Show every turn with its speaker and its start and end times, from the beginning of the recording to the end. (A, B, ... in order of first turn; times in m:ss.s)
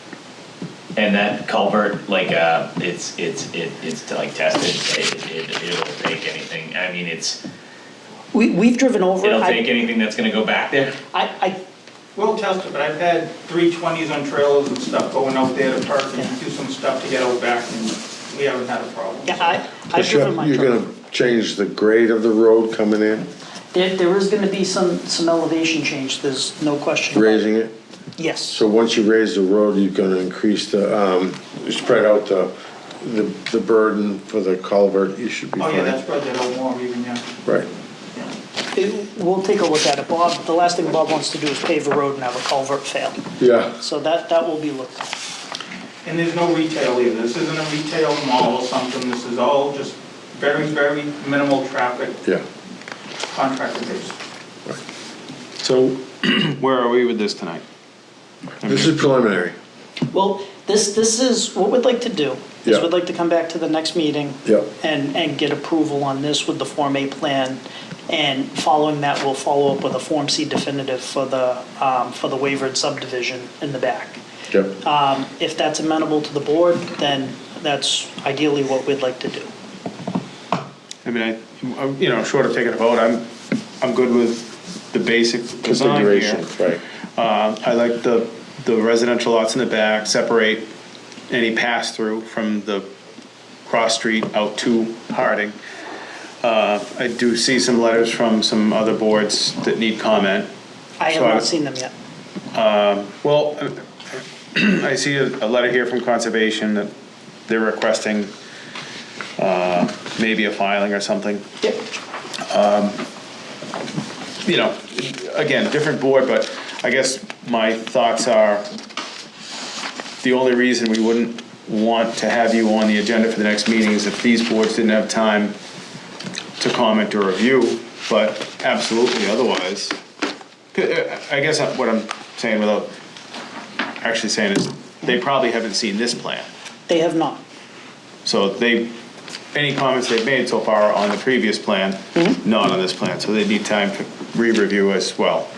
0:01.0-0:07.4 A
0:08.3-0:09.6 B
0:09.2-0:10.9 A
0:11.1-0:11.6 B
0:12.1-0:19.7 C
0:19.2-0:20.9 B
0:19.9-0:23.2 D
0:23.7-0:27.4 B
0:27.1-0:27.7 D
0:28.2-0:28.6 B
0:28.5-0:36.0 D
0:35.6-0:37.2 C
0:38.7-0:43.2 B
0:43.4-0:43.8 D
0:43.8-0:45.1 B
0:46.0-0:52.2 C
0:53.3-0:54.2 C
0:55.6-0:57.6 E
0:58.6-0:59.0 E
0:58.6-0:59.6 D
1:00.1-1:14.2 B
1:04.4-1:04.7 D
1:14.5-1:14.8 D
1:14.8-1:19.5 B
1:21.0-1:23.2 E
1:23.8-1:26.4 E
1:25.6-1:26.8 D
1:27.2-1:30.7 E
1:31.3-1:32.9 E
1:33.7-1:35.6 E
1:36.4-1:40.5 E
1:41.0-1:41.9 B
1:41.1-1:41.5 E
1:42.5-1:46.9 E
1:47.5-1:48.3 E
1:49.4-1:51.5 E
1:52.5-1:53.0 E
1:54.4-1:58.6 E
2:00.2-2:05.5 E
2:06.6-2:10.0 E
2:10.7-2:12.9 E
2:14.0-2:16.5 E
2:16.9-2:17.4 B
2:18.2-2:18.9 E
2:19.5-2:25.5 E
2:22.2-2:22.4 B